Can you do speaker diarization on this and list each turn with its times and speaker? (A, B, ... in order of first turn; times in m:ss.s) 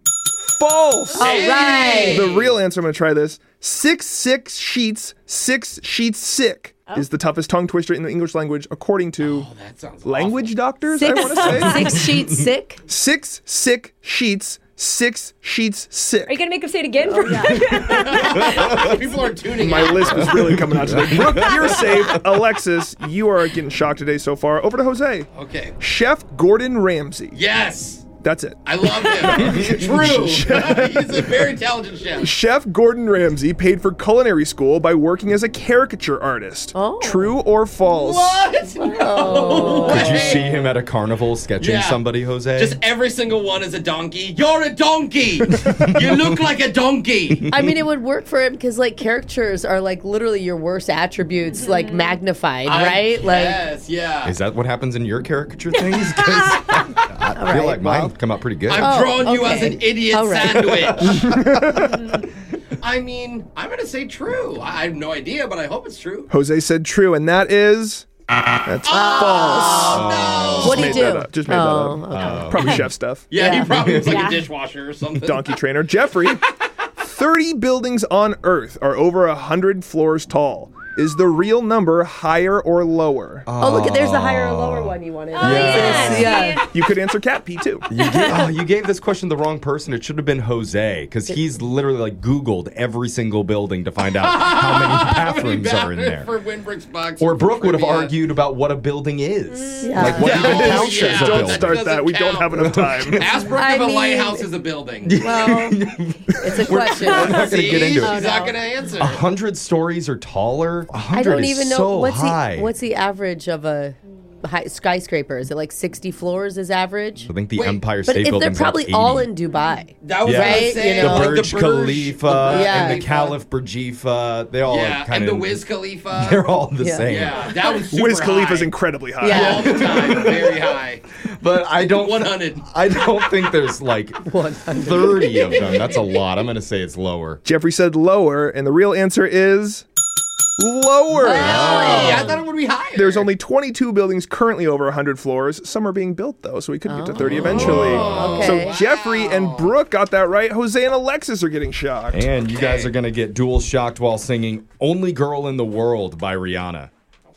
0:00.5-0:01.4 A
0:01.2-0:02.3 B
0:01.2-0:02.6 C
0:02.0-0:09.5 A
0:09.2-0:10.9 C
0:10.0-0:11.9 A
0:11.0-0:12.8 B
0:11.1-0:12.1 D
0:11.9-0:12.4 E
0:12.9-0:16.4 A
0:16.3-0:19.0 D
0:17.0-0:17.8 B
0:17.8-0:20.4 C
0:19.6-0:25.3 A
0:20.2-0:22.4 E
0:25.4-0:25.8 C
0:25.8-0:27.4 A
0:27.3-0:32.3 C
0:28.2-0:31.5 A
0:29.3-0:29.9 E
0:32.2-0:38.4 A
0:36.8-0:37.3 B
0:37.8-0:40.7 C
0:38.7-0:40.4 B
0:39.9-0:42.8 E
0:41.6-0:47.5 C
0:45.5-0:46.2 E
0:47.5-0:53.6 B
0:51.5-0:52.2 D
0:52.6-0:54.4 C
0:54.2-0:59.1 E
0:55.8-0:56.9 D
0:57.3-0:58.2 B
0:58.7-1:01.4 C
0:58.8-1:01.2 B
1:01.2-1:02.2 A
1:02.8-1:06.3 C
1:06.3-1:08.1 A
1:08.6-1:13.3 A
1:08.8-1:11.1 C
1:08.9-1:09.9 B
1:09.9-1:11.0 E
1:10.6-1:12.8 B
1:12.1-1:12.9 E
1:13.3-1:15.5 C
1:13.4-1:13.8 B
1:13.6-1:14.3 E
1:14.0-1:14.5 D
1:15.2-1:16.4 A
1:17.0-1:23.5 A
1:23.5-1:26.4 E
1:23.6-1:26.7 B
1:25.3-1:26.7 D
1:26.7-1:27.9 A
1:27.9-1:36.3 E
1:28.0-1:28.4 D
1:34.2-1:38.2 C
1:37.2-1:41.8 E
1:39.5-1:40.2 D
1:39.8-1:40.5 B
1:40.1-1:45.2 C
1:40.2-1:43.2 A
1:42.6-1:43.4 E
1:43.5-1:44.5 B
1:45.0-1:48.3 E
1:45.2-1:45.8 B
1:46.4-1:47.8 B
1:47.0-1:48.6 D
1:47.4-1:49.2 C
1:49.0-1:52.7 E
1:51.1-1:57.4 B
1:57.2-1:59.3 E
1:57.4-1:57.9 C
1:58.0-2:01.6 B
2:00.0-2:03.4 C
2:00.2-2:05.6 E
2:02.4-2:03.1 B
2:04.6-2:08.7 C
2:06.1-2:07.5 E
2:06.8-2:07.1 B
2:07.9-2:10.0 A
2:09.2-2:10.2 B
2:09.3-2:11.0 C
2:09.3-2:10.6 E
2:11.4-2:17.4 E
2:11.9-2:12.7 C
2:14.3-2:15.6 B
2:15.2-2:15.6 C
2:17.4-2:19.9 A
2:20.6-2:22.1 A
2:21.2-2:22.4 B
2:21.3-2:23.3 C
2:21.4-2:22.3 E
2:22.9-2:32.3 A
2:26.8-2:28.8 B
2:27.4-2:28.5 E
2:27.4-2:29.7 C
2:32.1-2:36.9 E
2:32.4-2:32.9 C